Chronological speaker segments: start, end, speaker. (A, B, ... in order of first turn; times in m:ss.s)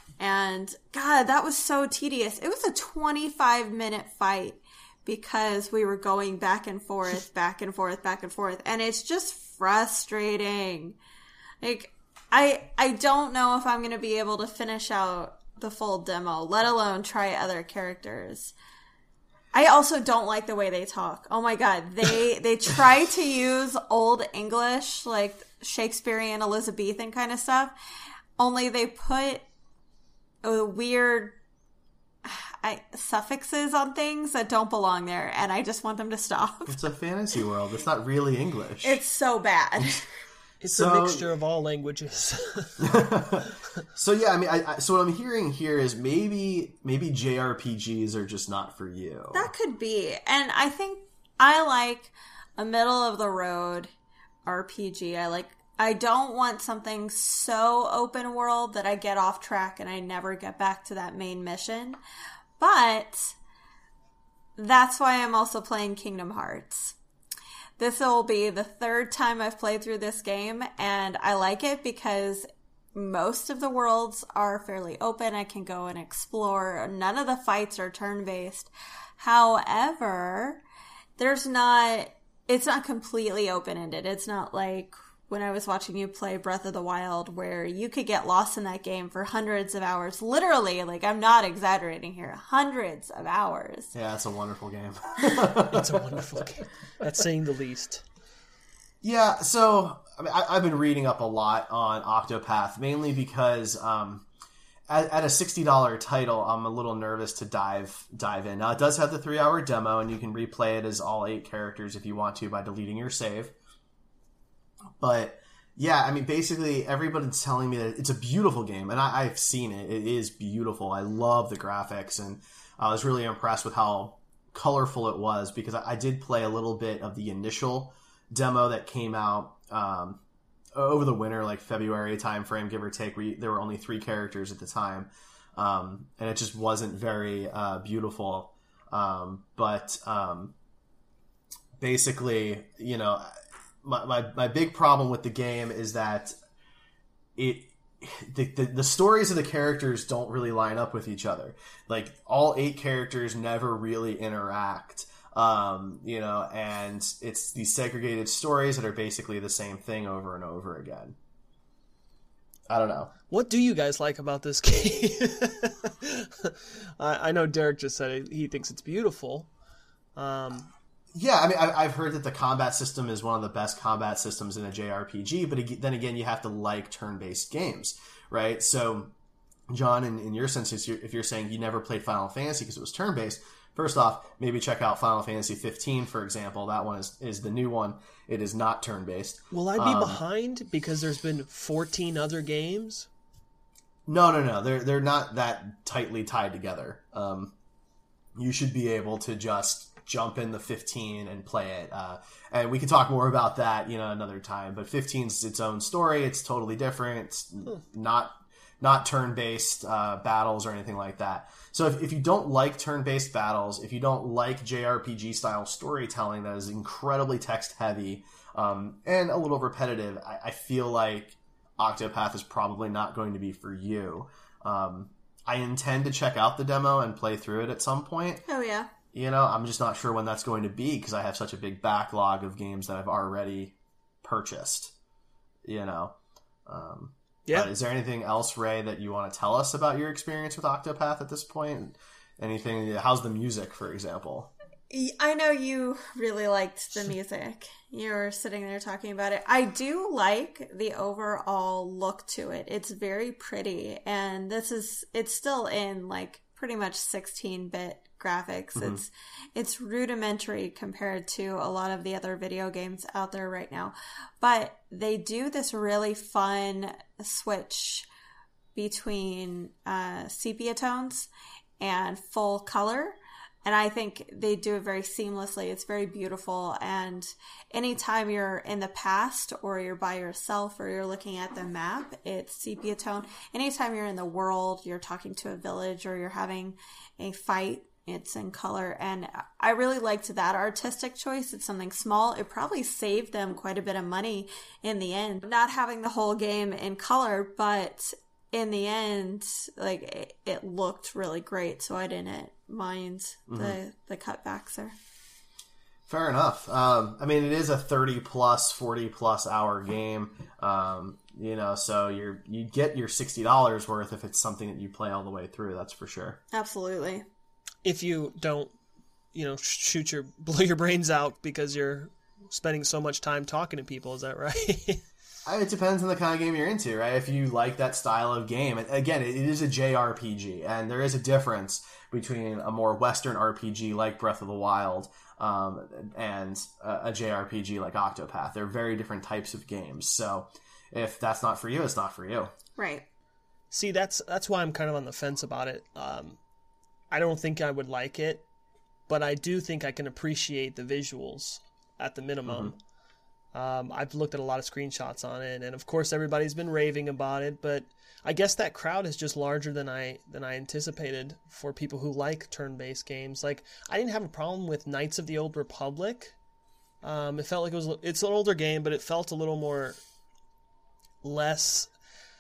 0:00.2-0:11.0 A
0:11.6-0:18.6 A
0:19.5-0:27.7 A
0:28.4-0:29.5 A
0:30.4-0:31.4 A
0:32.2-0:36.8 A
0:36.7-0:39.0 B
0:38.8-0:40.0 A
0:40.6-0:42.9 C
0:40.7-0:41.2 B
0:42.8-0:49.5 B
0:49.3-0:53.9 A
0:54.4-1:02.0 A
1:02.6-1:03.4 A
1:04.6-1:07.0 A
1:07.8-1:20.6 A
1:21.2-1:33.9 A
1:33.9-1:36.2 B
1:35.6-1:38.0 C
1:39.0-1:44.3 B
1:44.9-1:53.6 B
1:55.0-2:10.2 B
2:10.7-2:20.6 B
2:21.8-2:23.3 B
2:23.8-2:26.4 B
2:27.4-2:41.2 B
2:42.7-2:43.1 B
2:43.3-2:49.5 C
2:50.2-2:50.7 C
2:51.1-2:59.1 B
2:59.7-3:10.2 B
3:09.5-3:13.1 C
3:14.1-3:17.5 B
3:18.4-3:48.4 B
3:48.5-3:48.9 A
3:49.1-3:54.9 B
3:55.6-4:04.5 B
4:04.9-4:28.1 A
4:18.8-4:19.0 B
4:28.8-4:31.3 A
4:31.8-5:05.0 A
5:03.5-5:03.8 B
5:06.1-5:16.4 B
5:16.5-5:17.2 A
5:17.8-5:18.7 C
5:19.3-5:25.0 C
5:25.5-5:42.5 B
5:42.8-5:43.0 A
5:43.7-5:46.4 C
5:47.1-5:48.4 C
5:49.1-5:52.8 C
5:52.5-5:52.8 B
5:53.5-6:06.4 C
6:07.0-6:10.0 C
6:11.2-6:11.9 C